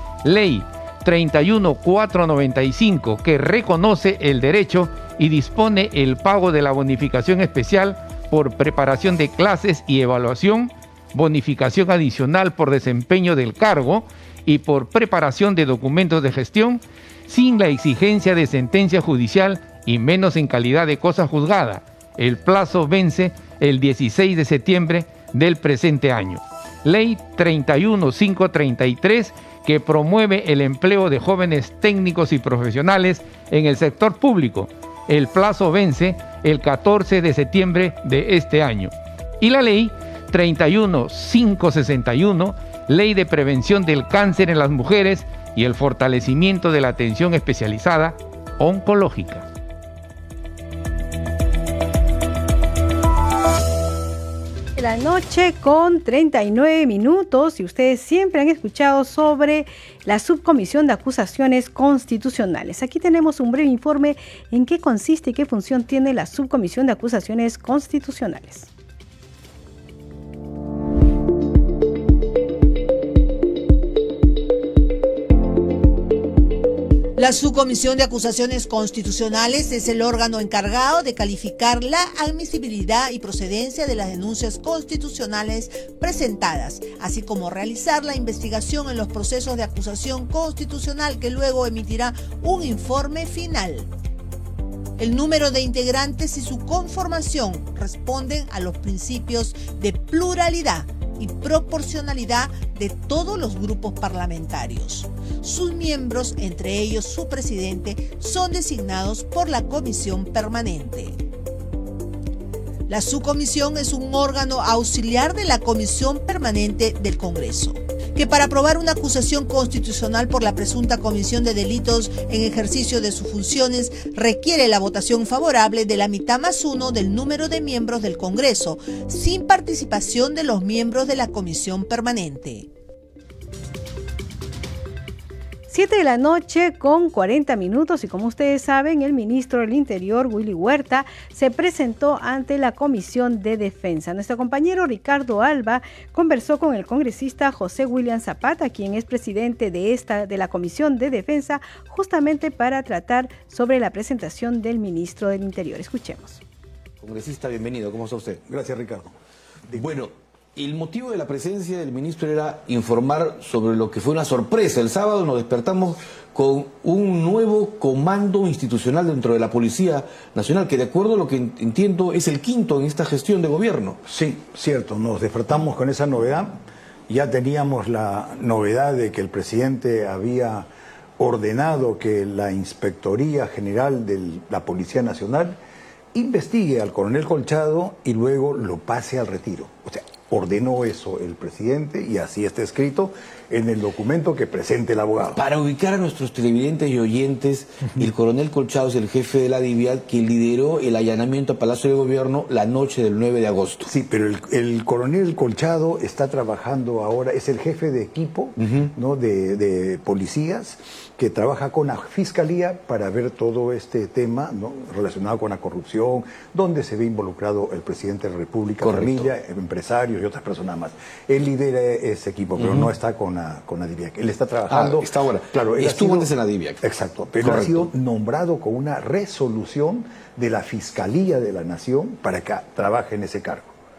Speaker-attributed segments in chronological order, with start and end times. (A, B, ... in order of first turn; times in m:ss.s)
0:00.2-0:49.4 A
0:54.8-1:08.7 B
1:17.2-1:33.9 C
1:35.0-1:51.2 C
1:52.9-2:12.7 C
2:15.7-2:36.4 B
2:37.0-2:38.4 D
2:38.5-2:39.1 E
2:39.7-2:40.0 E
2:39.7-2:54.0 D
2:54.0-3:00.7 E
3:01.2-3:05.6 E
3:06.1-3:15.4 E
3:15.3-3:23.9 D
3:23.8-3:53.7 E
3:28.6-3:28.9 D
3:38.8-3:39.3 D
3:42.6-3:42.9 D
3:44.7-3:46.8 D
3:47.4-3:47.9 D